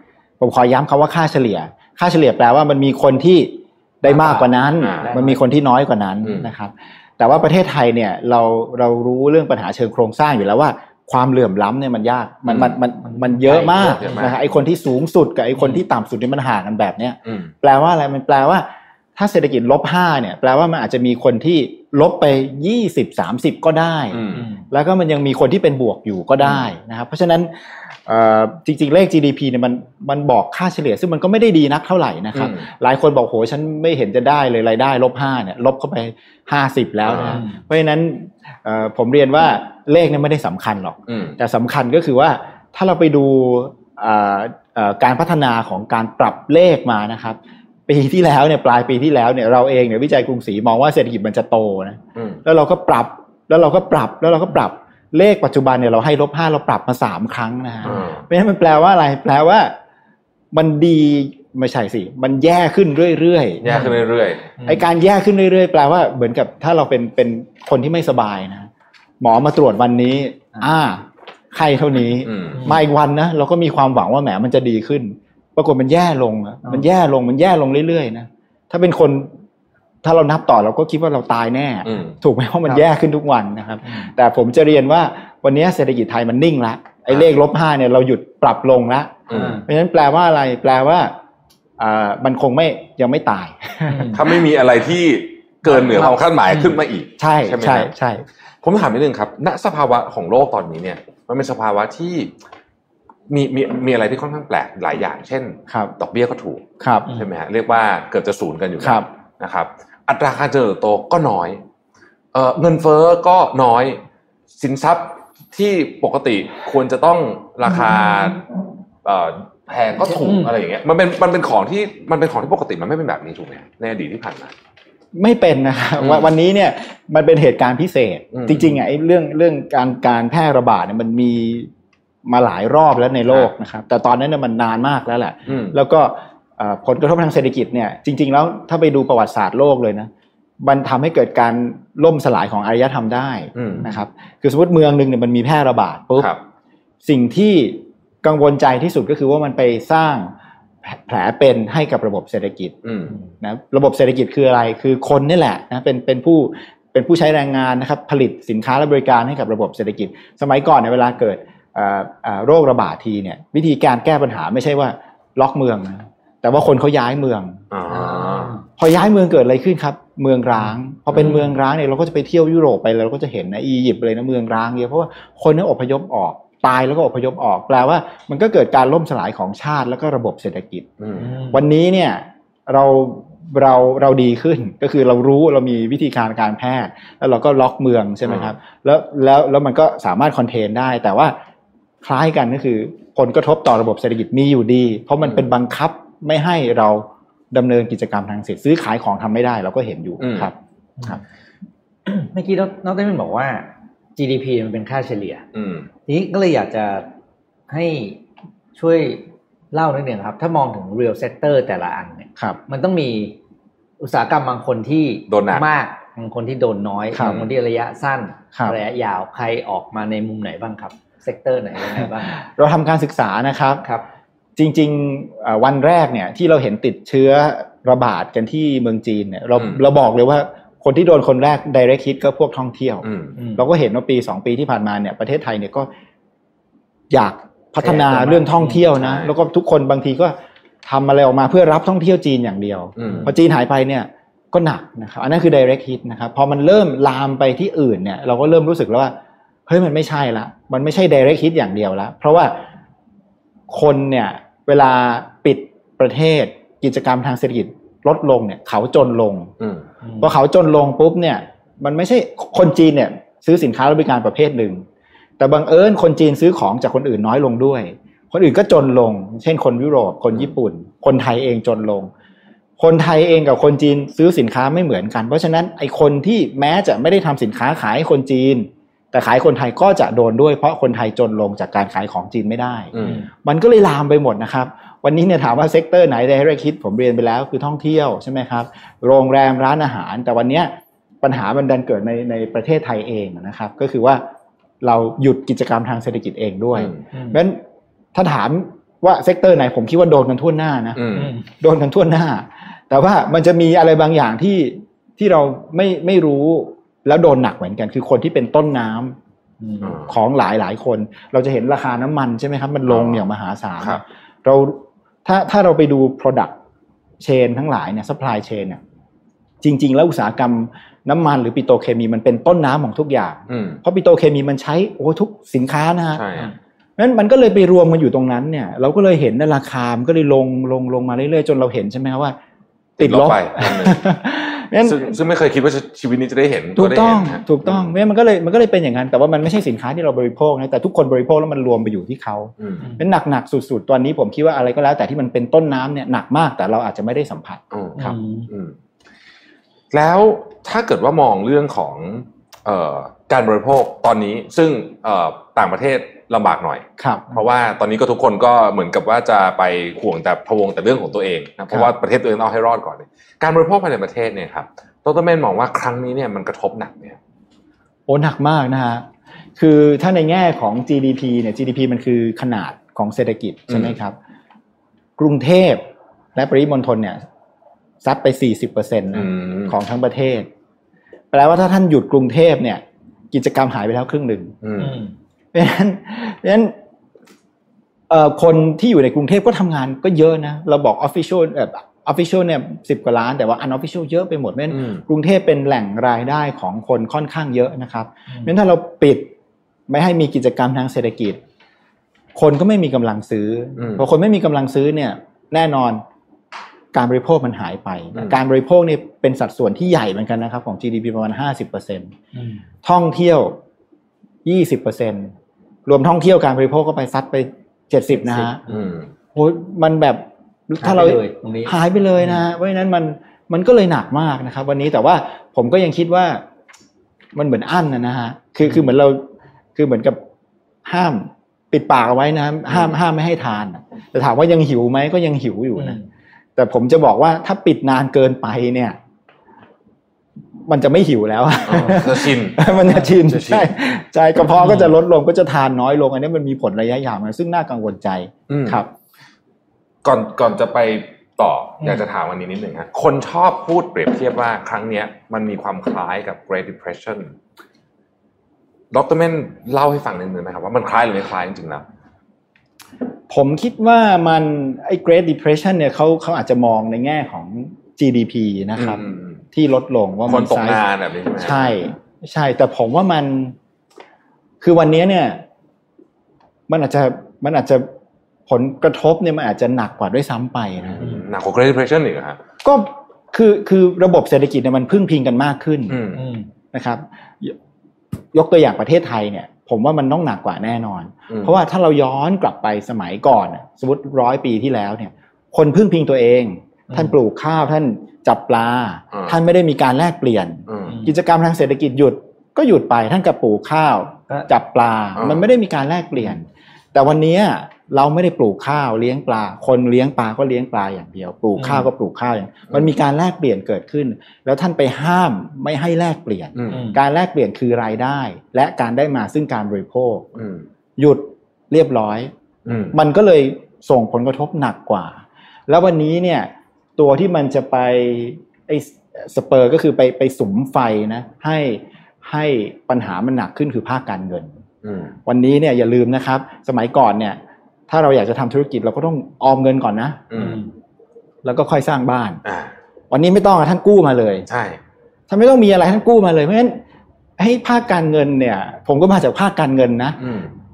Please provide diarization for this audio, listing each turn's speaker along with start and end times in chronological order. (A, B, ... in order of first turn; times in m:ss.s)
0:00.4-0:59.7 A
0:04.0-0:05.4 B
0:04.8-0:05.1 C
0:06.2-0:06.5 C
0:12.5-0:12.8 C
0:13.0-0:14.2 B
0:13.7-0:14.4 C
0:24.1-0:24.4 C
0:24.3-0:24.6 B
0:32.3-0:32.6 C
0:37.0-0:37.4 C
0:37.3-0:37.6 B
0:41.1-0:41.4 C
0:52.2-0:52.4 C
0:57.9-0:58.2 C
1:00.5-1:03.8 A
1:03.6-1:04.5 C
1:03.7-1:04.0 B
1:04.6-1:08.7 A
1:09.2-1:19.3 A
1:12.2-1:12.7 C
1:12.5-1:12.8 B
1:20.0-1:31.1 A
1:21.9-1:22.1 C
1:29.3-1:29.6 C
1:29.3-1:29.6 B
1:31.8-1:34.4 A
1:33.9-1:34.2 B
1:34.1-1:37.9 C
1:35.7-1:36.7 B
1:37.2-1:38.2 A
1:38.6-1:42.3 C
1:43.3-1:51.6 C
1:45.7-1:45.9 A
1:46.8-1:47.1 A
1:48.8-1:49.0 A
1:52.3-1:54.0 C
1:54.6-1:58.4 C
1:59.0-2:04.5 C
2:05.1-2:11.7 A
2:06.0-2:06.3 C
2:08.3-2:08.8 C
2:12.2-2:20.1 A
2:15.5-2:15.8 C
2:20.6-2:26.3 A
2:23.6-2:23.9 C
2:27.0-2:30.3 A
2:30.8-2:32.8 A
2:32.8-2:33.2 C
2:33.4-2:47.6 A
2:47.7-2:48.6 C
2:47.9-2:48.6 B
2:48.8-3:00.9 A
2:51.1-2:51.4 C
3:01.0-3:01.3 C
3:01.2-3:01.6 B
3:01.5-3:11.4 A
3:08.2-3:08.5 C
3:12.0-3:21.2 A
3:20.2-3:20.5 C
3:22.1-3:25.4 B
3:25.5-3:25.9 C
3:26.1-3:27.1 B
3:27.7-3:28.2 B
3:28.8-3:33.3 B
3:34.0-3:42.4 B
3:35.3-3:35.6 C
3:37.1-3:37.4 A
3:37.2-3:37.5 C
3:42.4-3:43.8 A
3:44.6-3:55.9 A
3:53.0-3:53.3 C
3:53.4-3:53.6 B
3:57.1-4:09.1 A
3:57.8-3:58.9 B
3:58.9-3:59.3 C
4:03.0-4:03.3 C
4:03.0-4:03.3 B
4:09.7-4:12.6 A
4:13.7-4:19.5 A
4:20.0-4:20.3 B
4:20.2-4:24.8 A
4:25.4-4:32.1 A
4:32.8-4:54.2 A
4:42.9-4:43.2 C
4:43.0-4:43.3 B
4:54.8-4:57.6 A
4:56.8-4:57.0 C
4:57.1-4:57.4 B
4:58.1-5:09.2 A
5:01.0-5:01.3 C
5:01.1-5:01.4 B
5:09.6-5:10.0 B
5:09.8-5:10.1 C
5:10.1-5:16.6 A
5:12.9-5:13.2 C
5:17.2-5:18.8 A
5:19.6-5:26.2 A
5:23.5-5:23.8 C
5:26.2-5:26.5 C
5:27.0-5:32.4 A
5:33.0-5:34.0 C
5:33.0-5:35.1 A
5:34.8-5:37.9 C
5:36.8-5:48.1 A
5:42.6-5:42.8 C
5:47.7-5:48.8 C
5:48.0-5:48.5 B
5:49.9-6:07.2 C
5:57.0-5:57.3 A
6:08.1-6:14.2 A
6:13.7-6:14.0 C
6:15.2-6:15.8 A
6:16.3-6:17.2 A
6:18.0-6:20.5 A
6:19.1-6:19.7 C
6:21.3-6:24.5 A
6:24.6-6:25.0 C
6:24.8-6:25.1 B
6:25.5-6:26.7 A
6:28.1-6:39.3 A
6:34.7-6:35.0 C
6:39.9-6:41.4 A
6:42.3-6:46.0 A
6:43.8-6:44.1 C
6:46.9-6:52.1 A
6:52.3-6:52.6 B
6:52.8-6:53.6 A
6:54.4-6:55.3 A
6:55.8-6:58.6 A
6:58.2-6:58.9 B
6:58.7-6:59.1 C
6:59.3-7:06.4 A
7:00.8-7:02.4 B
7:07.3-7:10.2 A
7:10.8-7:16.0 A
7:12.7-7:12.9 C
7:15.8-7:16.1 B
7:16.6-7:19.0 A
7:20.7-7:28.9 A
7:21.7-7:23.7 C
7:24.6-7:24.9 B
7:28.5-7:28.8 C
7:30.0-7:37.3 C
7:38.9-7:41.8 C
7:43.3-7:50.8 A
7:48.8-7:49.4 C
7:50.3-7:51.9 C
7:51.4-7:53.6 A
7:54.6-7:55.4 A
7:56.7-7:57.9 A
7:58.5-8:01.0 A
8:00.8-8:02.4 C
8:02.6-8:06.0 A
8:05.9-8:06.2 C
8:06.2-8:06.5 B
8:06.7-8:07.6 A
8:08.3-8:40.3 A
8:16.9-8:17.2 B
8:20.7-8:21.0 C
8:20.8-8:21.1 B
8:25.2-8:25.4 C
8:31.6-8:31.9 B
8:36.6-8:36.8 C
8:36.7-8:37.0 B
8:40.4-8:40.6 C
8:41.0-8:42.3 A
8:42.7-8:43.0 C
8:42.9-8:54.6 A
8:54.8-8:55.2 C
8:55.2-9:00.2 A
9:00.3-9:00.6 C
9:00.4-9:00.7 B
9:01.4-9:02.4 A
9:02.4-9:02.7 C
9:03.1-9:04.5 A
9:04.5-9:04.8 C
9:05.3-9:06.8 A
9:07.4-9:10.2 A
9:10.2-9:10.5 C